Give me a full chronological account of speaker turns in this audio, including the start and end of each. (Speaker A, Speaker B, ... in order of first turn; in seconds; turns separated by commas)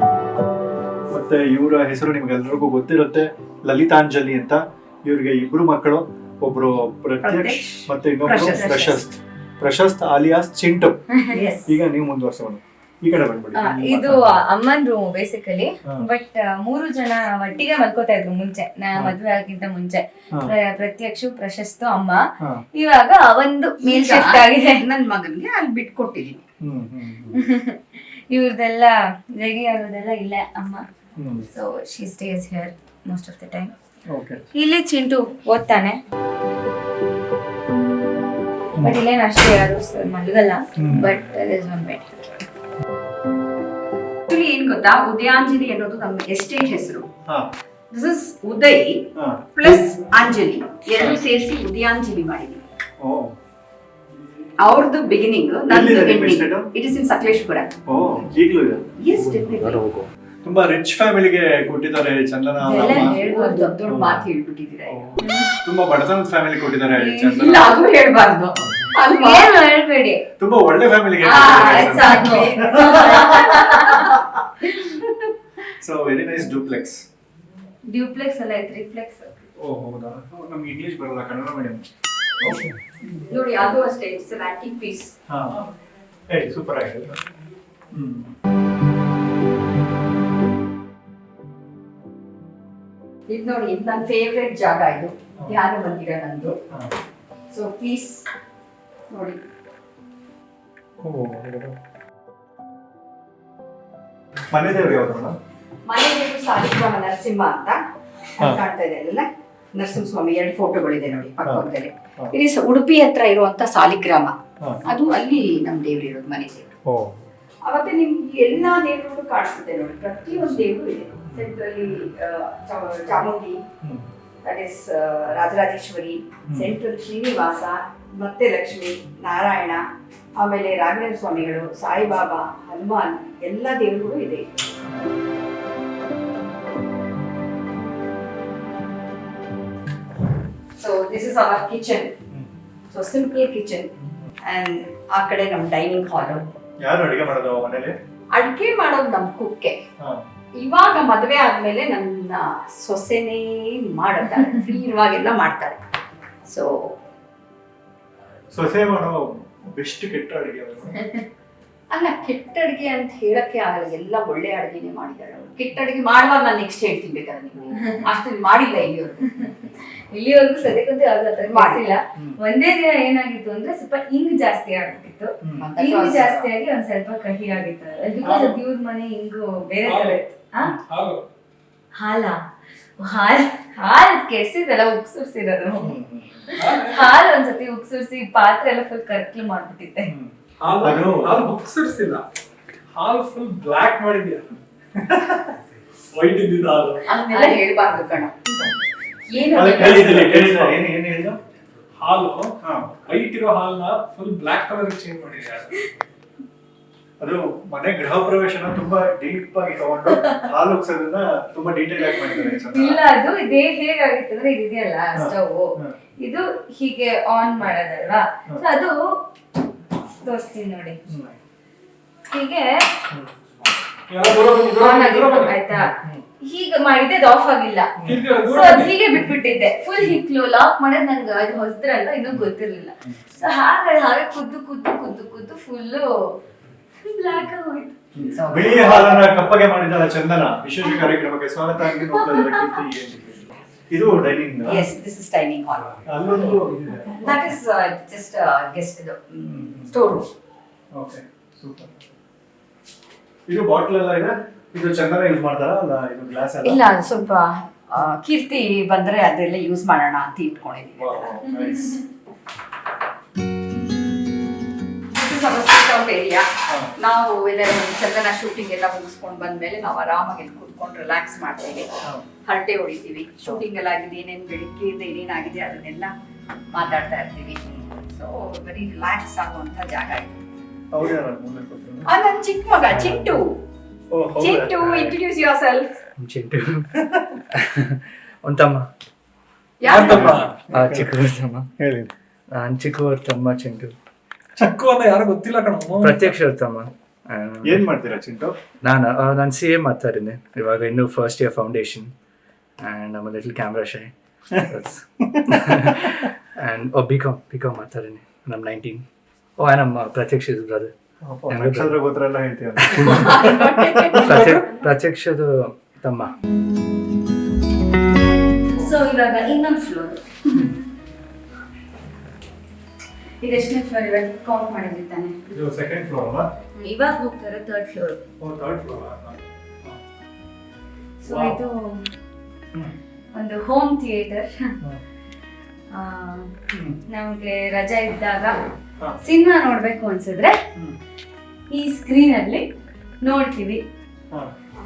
Speaker A: 1.1-11.0, Speaker B: 7.2-9.0, Speaker B: 11.3-11.7, Speaker A: 11.7-14.4, Speaker C: 13.6-22.2, Speaker C: 22.7-24.9, Speaker B: 23.8-26.4, Speaker A: 26.6-27.4, Speaker C: 27.3-30.8, Speaker A: 31.2-31.5, Speaker C: 31.5-33.7, Speaker A: 34.1-34.5, Speaker C: 34.5-36.0, Speaker C: 38.8-42.1, Speaker A: 40.8-41.1, Speaker B: 44.3-47.1, Speaker B: 47.9-52.6, Speaker A: 49.1-49.9, Speaker A: 53.0-53.3, Speaker B: 54.6-57.7, Speaker A: 55.7-56.7, Speaker A: 57.9-58.9, Speaker B: 59.0-59.8, Speaker D: 59.1-60.1, Speaker A: 60.4-63.2, Speaker C: 62.6-63.7, Speaker B: 62.7-65.2, Speaker A: 63.9-64.3, Speaker A: 64.8-67.7, Speaker C: 65.2-65.5, Speaker C: 66.9-67.5, Speaker B: 67.3-69.5, Speaker C: 69.1-70.2, Speaker A: 70.4-73.4, Speaker B: 71.2-74.2, Speaker C: 71.3-74.1, Speaker A: 75.8-77.0, Speaker C: 77.8-79.4, Speaker A: 79.5-81.8, Speaker A: 82.4-82.8, Speaker B: 83.1-85.1, Speaker A: 85.3-85.7, Speaker A: 86.3-87.2, Speaker A: 87.9-88.3, Speaker B: 93.3-96.6, Speaker B: 97.5-98.2, Speaker B: 99.1-99.4, Speaker A: 101.0-101.8, Speaker A: 104.5-105.3, Speaker B: 105.8-107.8, Speaker B: 108.3-116.7, Speaker A: 111.4-112.3, Speaker A: 116.8-117.2, Speaker B: 117.6-123.6, Speaker B: 124.4-129.8, Speaker A: 126.5-126.7, Speaker B: 130.3-134.5, Speaker B: 140.8-142.1, Speaker B: 142.9-143.9, Speaker B: 144.4-146.5, Speaker A: 146.8-147.9, Speaker B: 148.3-149.8, Speaker A: 150.0-150.2, Speaker B: 150.5-155.8, Speaker B: 156.4-157.0, Speaker A: 158.5-161.0, Speaker B: 161.9-169.5, Speaker C: 169.4-180.7, Speaker B: 171.5-171.8, Speaker A: 175.4-175.7, Speaker B: 175.6-176.5, Speaker E: 179.8-180.2, Speaker E: 180.8-181.2, Speaker C: 181.9-182.4, Speaker C: 183.0-185.9, Speaker A: 185.8-186.5, Speaker E: 186.6-187.0, Speaker C: 186.6-190.1, Speaker A: 190.1-191.4, Speaker E: 190.6-192.2, Speaker E: 192.9-194.6, Speaker A: 194.9-195.5, Speaker E: 196.1-197.0, Speaker B: 197.1-198.5, Speaker C: 197.3-197.6, Speaker B: 199.3-200.3, Speaker A: 199.5-201.4, Speaker E: 199.9-200.7, Speaker E: 202.0-205.8, Speaker A: 202.6-202.9, Speaker A: 207.2-213.0, Speaker C: 212.1-219.2, Speaker A: 215.1-215.9, Speaker C: 220.1-221.0, Speaker A: 221.1-221.3, Speaker C: 222.3-222.9, Speaker E: 224.1-225.6, Speaker C: 224.8-236.4, Speaker A: 225.7-226.2, Speaker A: 228.0-228.2, Speaker E: 228.0-228.9, Speaker C: 237.0-237.9, Speaker A: 238.1-244.8, Speaker B: 238.3-239.3, Speaker C: 241.9-242.7, Speaker B: 244.6-246.5, Speaker A: 246.0-247.2, Speaker B: 247.1-250.3, Speaker A: 249.4-249.9, Speaker A: 250.9-251.9, Speaker A: 253.5-256.8, Speaker B: 256.6-261.3, Speaker A: 260.9-262.0, Speaker B: 265.1-271.9, Speaker A: 266.7-266.9, Speaker B: 272.4-276.1, Speaker B: 276.7-277.6, Speaker A: 277.6-278.0, Speaker B: 278.1-280.3, Speaker A: 280.9-282.1, Speaker B: 282.1-283.6, Speaker A: 282.9-283.4, Speaker A: 284.1-285.2, Speaker B: 284.4-285.9, Speaker D: 286.2-287.0, Speaker A: 286.9-287.3, Speaker D: 287.5-288.9, Speaker B: 289.8-290.5, Speaker D: 289.8-291.7, Speaker E: 290.0-290.5, Speaker A: 290.1-291.1, Speaker A: 291.7-292.1, Speaker D: 292.5-293.9, Speaker E: 294.6-296.2, Speaker D: 296.0-297.9, Speaker A: 297.6-298.5, Speaker D: 298.8-302.1, Speaker D: 302.8-309.0, Speaker A: 305.2-305.5, Speaker D: 309.6-310.9, Speaker A: 311.2-314.5, Speaker D: 311.5-312.0, Speaker D: 312.8-313.3, Speaker B: 313.3-314.6, Speaker D: 314.1-316.3, Speaker C: 318.7-320.8, Speaker C: 323.4-325.4, Speaker A: 325.5-326.5, Speaker C: 326.8-328.2, Speaker A: 328.4-330.0, Speaker C: 331.2-332.1, Speaker A: 331.3-331.6, Speaker C: 333.3-334.7, Speaker C: 335.9-336.5, Speaker A: 336.7-337.0, Speaker C: 337.1-338.5, Speaker C: 339.2-340.5, Speaker C: 341.7-342.6, Speaker C: 343.2-343.8